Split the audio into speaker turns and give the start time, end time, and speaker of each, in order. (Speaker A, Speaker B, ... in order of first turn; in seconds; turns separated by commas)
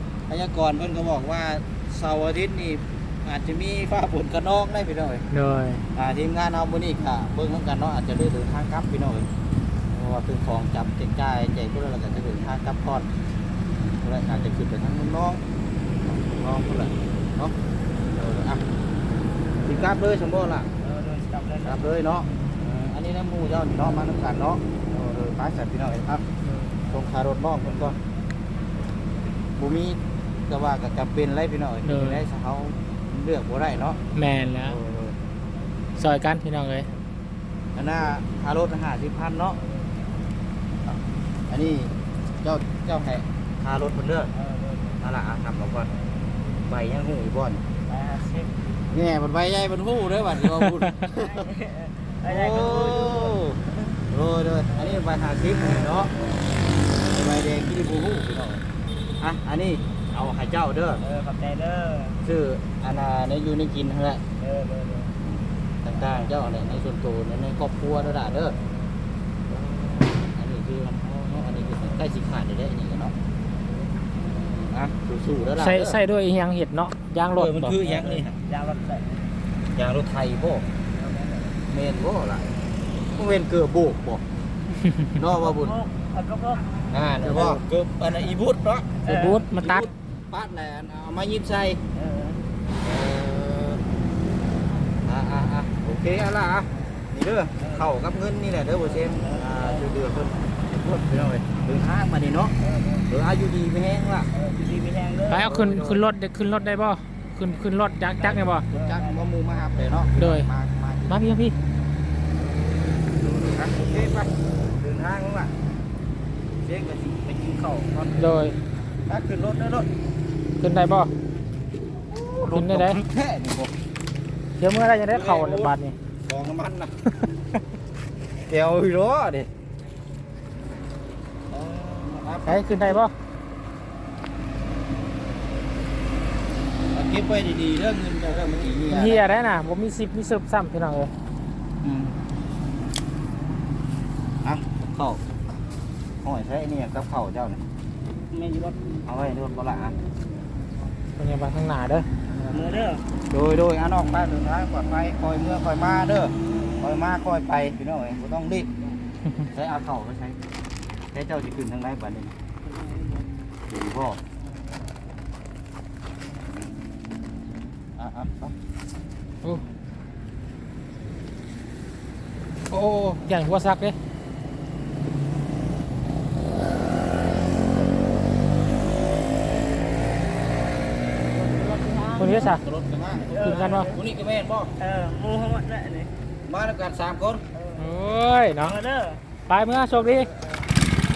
Speaker A: 0.3-5.3, Speaker B: 5.3-5.8, Speaker A: 6.0-9.3, Speaker A: 9.9-13.1, Speaker A: 14.0-15.4, Speaker A: 16.1-17.6, Speaker A: 18.1-18.6, Speaker A: 19.6-20.7, Speaker C: 20.8-21.9, Speaker A: 21.6-26.2, Speaker B: 26.4-26.8, Speaker A: 26.9-28.0, Speaker A: 29.6-34.0, Speaker B: 31.8-32.2, Speaker B: 34.1-34.8, Speaker A: 34.6-35.2, Speaker B: 36.0-36.9, Speaker A: 37.8-39.6, Speaker A: 40.9-44.3, Speaker C: 44.3-45.0, Speaker A: 45.0-45.9, Speaker A: 46.6-47.6, Speaker C: 47.9-48.7, Speaker A: 48.9-51.4, Speaker C: 51.1-53.8, Speaker A: 52.3-53.6, Speaker A: 54.1-56.1, Speaker C: 54.7-56.5, Speaker A: 57.0-58.6, Speaker A: 59.2-61.0, Speaker C: 61.0-62.2, Speaker A: 62.2-64.2, Speaker C: 64.4-65.2, Speaker A: 65.2-68.6, Speaker A: 69.5-73.1, Speaker A: 74.2-76.0, Speaker B: 75.6-77.8, Speaker A: 77.3-78.4, Speaker C: 77.8-79.3, Speaker A: 79.7-80.7, Speaker C: 80.9-81.6, Speaker A: 81.7-82.4, Speaker A: 83.0-84.2, Speaker A: 85.2-85.7, Speaker C: 85.4-86.9, Speaker A: 86.9-89.0, Speaker B: 87.2-87.6, Speaker C: 89.0-89.9, Speaker B: 89.0-89.9, Speaker A: 89.5-91.8, Speaker C: 91.9-92.4, Speaker A: 92.8-93.8, Speaker A: 95.0-102.5, Speaker C: 97.6-97.9, Speaker C: 98.8-99.8, Speaker C: 102.6-103.1, Speaker A: 103.1-104.3, Speaker C: 104.3-105.5, Speaker B: 105.3-108.7, Speaker A: 105.4-106.0, Speaker A: 108.2-111.2, Speaker C: 108.6-109.9, Speaker B: 110.2-110.5, Speaker B: 111.1-111.6, Speaker A: 113.2-115.5, Speaker A: 116.6-118.3, Speaker B: 118.2-118.6, Speaker A: 119.1-119.9, Speaker B: 120.6-121.1, Speaker A: 122.1-123.7, Speaker B: 122.5-123.0, Speaker B: 124.6-126.0, Speaker A: 125.1-125.7, Speaker A: 126.3-126.9, Speaker A: 128.5-129.5, Speaker A: 131.5-133.1, Speaker B: 132.5-133.1, Speaker A: 136.9-139.2, Speaker B: 138.9-141.1, Speaker A: 141.8-142.2, Speaker A: 144.4-145.2, Speaker A: 146.2-147.6, Speaker C: 148.3-148.9, Speaker A: 149.1-150.0, Speaker B: 151.2-152.6, Speaker C: 152.5-153.1, Speaker A: 153.3-158.7, Speaker A: 159.5-160.4, Speaker A: 161.1-162.3, Speaker A: 163.7-164.2, Speaker A: 166.5-168.6, Speaker B: 172.7-174.0, Speaker C: 181.2-182.6, Speaker B: 182.2-182.6, Speaker A: 182.2-184.7, Speaker C: 183.1-184.0, Speaker B: 183.4-183.9, Speaker C: 184.8-186.1, Speaker A: 186.5-187.4, Speaker C: 187.5-188.0, Speaker B: 187.8-188.8, Speaker C: 188.6-189.2, Speaker B: 189.5-190.3, Speaker C: 189.9-190.8